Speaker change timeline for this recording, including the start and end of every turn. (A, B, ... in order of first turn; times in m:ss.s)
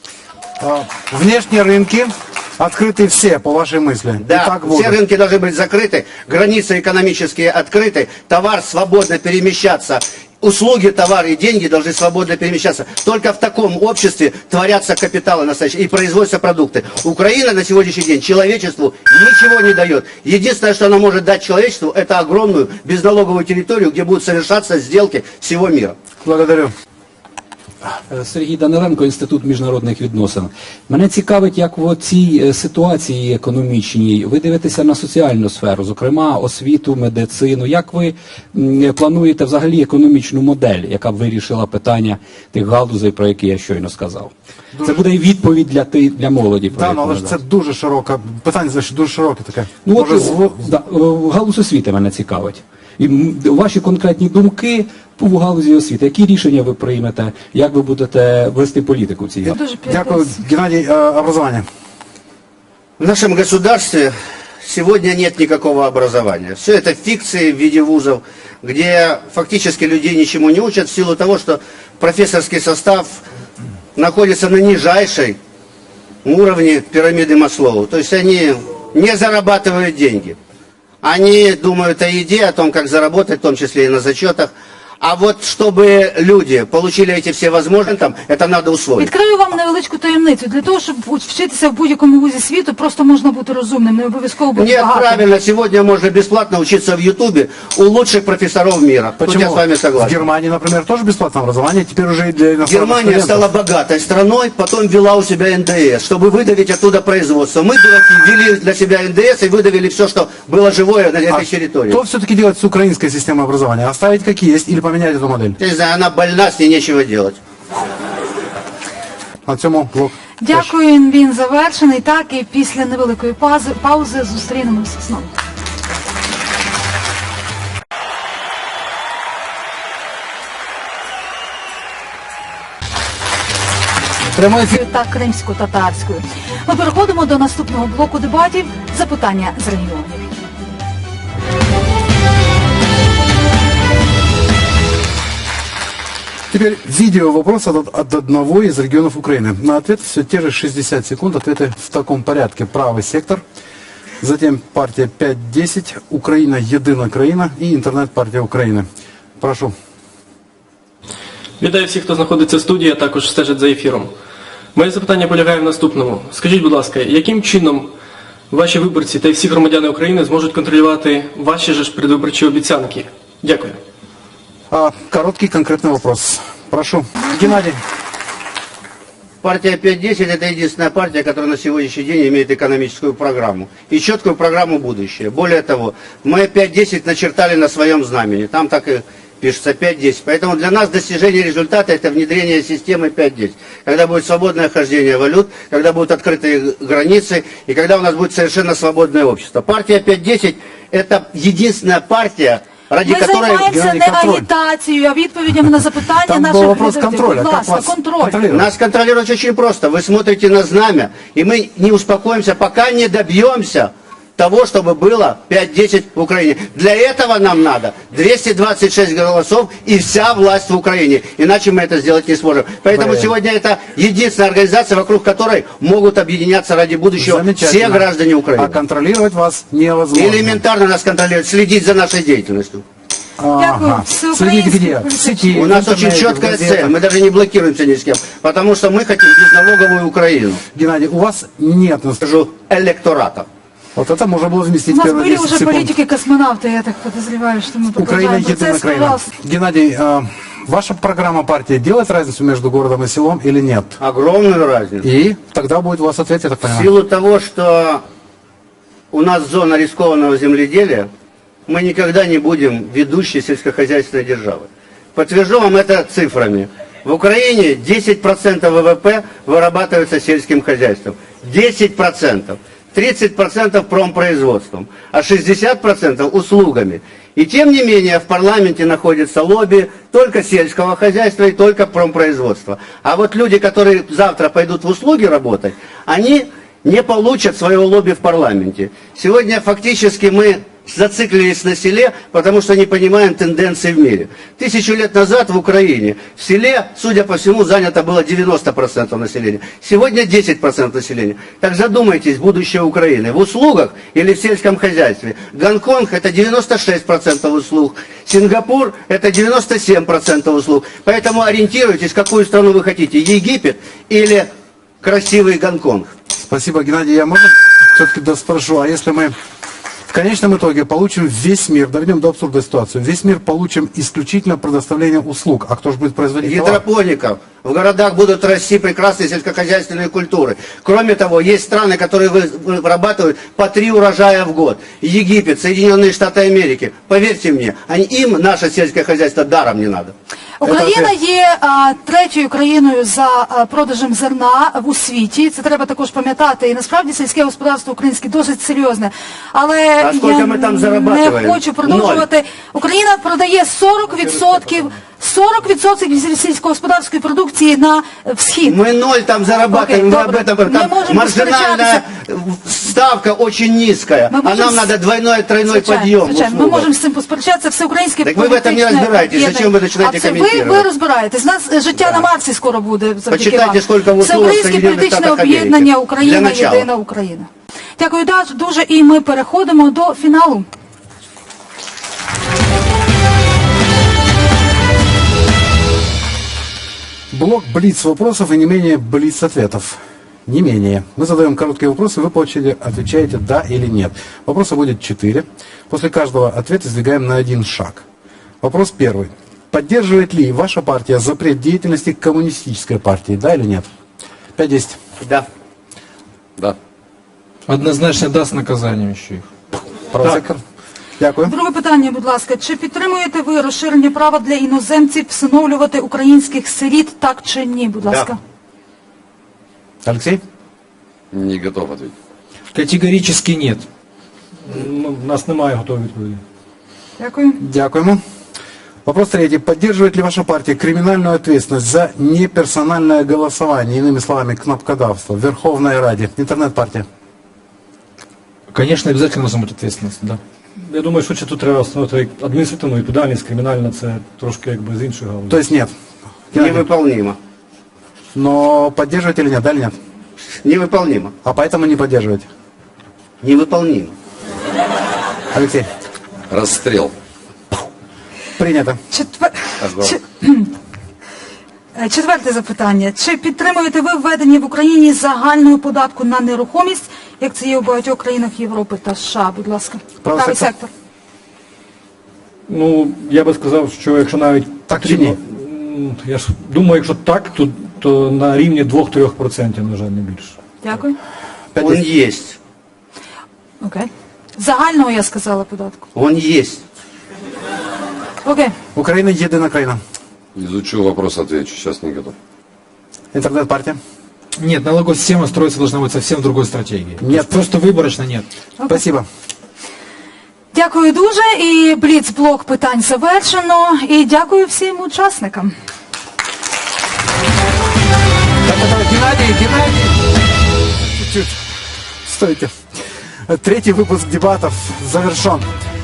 0:00.6-0:05.0 A
0:04.2-0:26.0 B
0:26.2-0:26.7 A
0:28.1-0:47.4 C
0:44.7-0:45.0 A
0:46.7-0:50.6 A
0:49.8-0:59.6 C
0:59.4-1:01.6 A
0:59.4-1:00.4 D
1:03.0-1:13.2 B
1:14.0-1:15.4 B
1:16.2-1:20.4 B
1:21.0-1:29.1 B
1:29.0-1:35.2 D
1:34.5-1:40.2 B
1:39.2-1:43.4 A
1:42.6-1:52.0 B
1:51.3-1:55.6 A
1:55.6-1:57.4 B
1:59.4-2:00.7 A
2:00.4-2:05.3 D
2:14.3-2:14.8 A
2:14.6-2:20.2 D
2:26.5-2:33.4 A
2:34.2-2:38.9 A
2:39.4-2:39.7 A
2:41.6-2:44.1 E
2:44.7-2:47.9 E
2:48.5-2:53.8 E
2:54.7-2:57.8 A
2:59.4-3:23.7 B
3:23.0-3:28.4 D
3:23.6-3:24.4 A
3:26.2-3:28.7 A
3:28.5-3:48.8 B
3:42.9-3:43.3 A
3:47.2-3:50.6 A
3:50.1-3:52.8 B
3:53.4-3:56.9 A
3:53.6-3:55.7 D
3:55.6-4:00.6 B
4:00.7-4:02.2 A
4:02.2-4:03.5 B
4:03.9-4:05.9 A
4:04.9-4:09.3 D
4:07.9-4:14.0 A
4:14.0-4:15.1 B
4:15.0-4:16.9 A
4:16.6-4:18.0 B
4:19.1-4:21.1 B
4:21.7-5:14.5 B
5:15.0-5:16.1 B
5:16.4-5:19.4 A
5:20.1-5:26.8 A
5:26.4-5:40.1 B
5:40.6-5:58.8 D
5:40.6-5:41.1 A
5:50.0-5:52.2 B
5:58.7-6:06.9 B
5:59.7-6:02.0 D
6:04.3-6:04.9 D
6:05.6-6:20.6 D
6:08.2-6:10.8 B
6:12.0-6:12.2 B
6:13.3-6:16.9 B
6:27.3-6:38.0 A
6:38.6-6:43.9 A
6:44.6-6:45.0 A
6:45.2-6:45.4 B
6:47.7-6:49.5 F
6:50.1-6:50.6 A
6:51.2-6:51.5 A
6:51.4-6:58.4 D
7:00.0-7:00.4 A
7:01.3-7:02.1 G
7:02.7-7:03.8 F
7:04.7-7:06.4 H
7:07.2-7:07.6 D
7:07.6-7:08.2 A
7:09.0-7:17.0 A
7:18.7-7:20.4 F
7:20.8-7:25.6 H
7:25.5-7:25.9 A
7:26.5-7:26.9 A
7:26.5-7:27.4 B
7:28.3-7:30.0 A
7:30.6-7:31.3 B
7:31.4-7:32.5 A
7:33.4-7:34.1 B
7:35.5-7:35.9 A
7:36.5-7:37.1 G
7:38.6-7:39.0 A
7:39.1-7:40.7 D
7:39.8-7:40.2 G
7:41.9-7:50.9 D
7:50.2-7:50.7 A
7:52.7-8:00.6 H
7:54.9-7:55.4 A
8:00.8-8:01.2 D
8:01.7-8:02.0 A
8:01.8-8:02.6 B
8:03.8-8:06.0 D
8:06.1-8:06.8 B
8:08.4-8:08.7 D
8:08.9-8:10.0 A
8:10.5-8:12.3 G
8:13.3-8:14.0 A
8:14.6-8:18.4 F
8:17.2-8:17.6 A
8:18.9-8:19.2 A
8:20.7-8:25.7 D
8:28.6-8:30.2 A
8:31.0-8:31.6 A
8:32.2-8:35.7 A